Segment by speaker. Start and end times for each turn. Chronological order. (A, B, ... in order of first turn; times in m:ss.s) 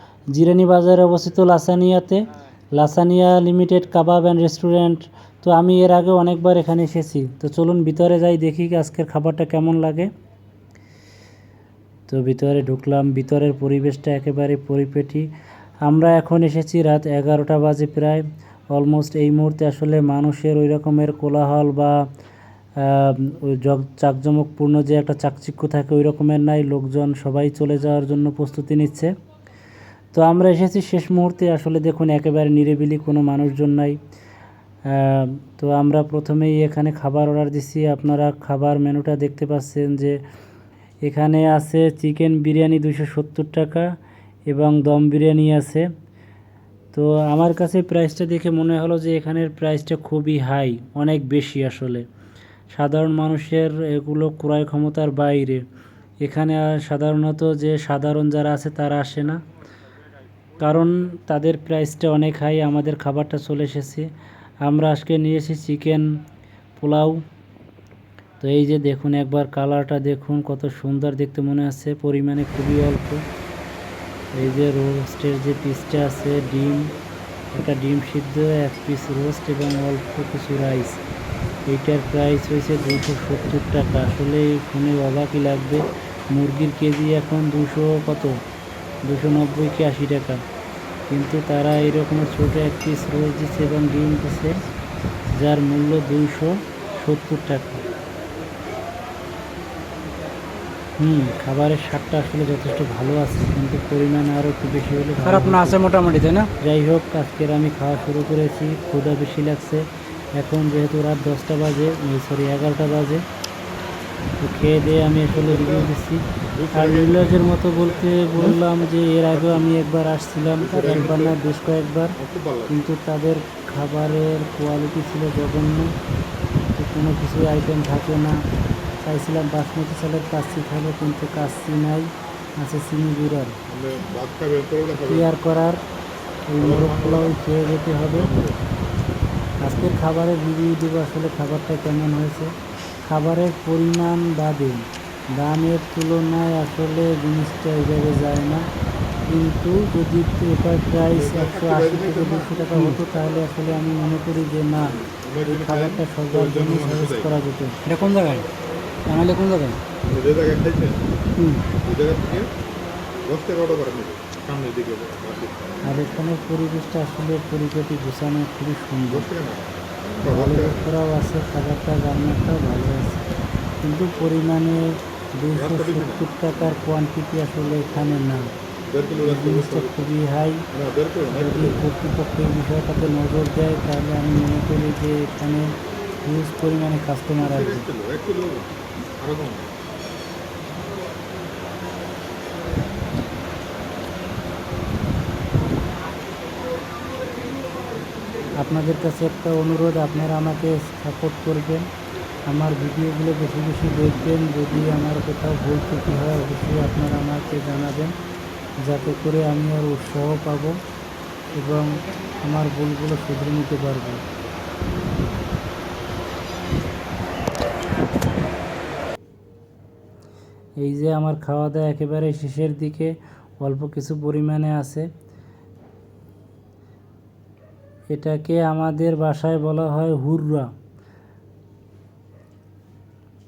0:00.3-0:10.1 A
0:12.1-0:15.3 A
0:15.8-0:22.0 A
0:22.8-0:29.1 A
0:30.1-0:34.0 A
0:34.9-0:40.2 A
0:41.0-0:43.9 A
0:44.5-0:45.9 A
0:46.9-0:52.0 A
0:52.7-0:55.6 A
0:56.2-0:59.4 A
1:00.6-1:04.1 A
1:04.6-1:06.2 A
1:06.8-1:07.2 A
1:08.4-1:13.2 A
1:14.3-1:16.9 A
1:17.5-1:21.0 A
1:21.7-1:28.4 A
1:29.0-1:30.4 A
1:31.1-1:34.6 A
1:35.3-1:37.8 A
1:41.0-1:45.8 A
1:45.2-1:46.5 B
1:46.6-1:53.2 A
1:54.4-2:02.2 A
1:55.3-1:55.9 C
1:56.6-1:58.2 C
1:59.3-1:59.7 C
2:00.6-2:01.4 C
2:02.2-2:02.8 C
2:02.7-2:05.9 A
2:06.7-2:08.4 A
2:09.0-2:13.6 A
2:13.7-2:15.3 C
2:15.0-2:15.8 A
2:16.5-2:18.3 A
2:16.6-2:17.4 C
2:18.1-2:18.6 C
2:19.6-2:28.6 A
2:29.2-2:37.8 A
2:31.1-2:32.6 C
2:32.7-2:33.0 B
2:34.8-2:37.4 C
2:37.8-2:38.5 B
2:39.1-2:39.8 B
2:40.1-2:41.1 C
2:41.8-2:42.5 C
2:43.2-2:45.8 C
2:45.8-2:49.3 A
2:49.1-2:50.9 C
2:50.3-2:53.3 A
2:53.8-2:58.5 A
2:55.5-2:56.3 C
2:58.9-3:00.1 C
2:59.2-3:00.7 A
3:00.7-3:01.8 C
3:01.3-3:07.9 A
3:07.4-3:09.7 C
3:18.6-3:21.9 A
3:22.5-3:28.1 A
3:28.8-3:30.8 A
3:31.5-3:34.2 A
3:40.8-3:45.1 A
3:48.1-3:50.7 A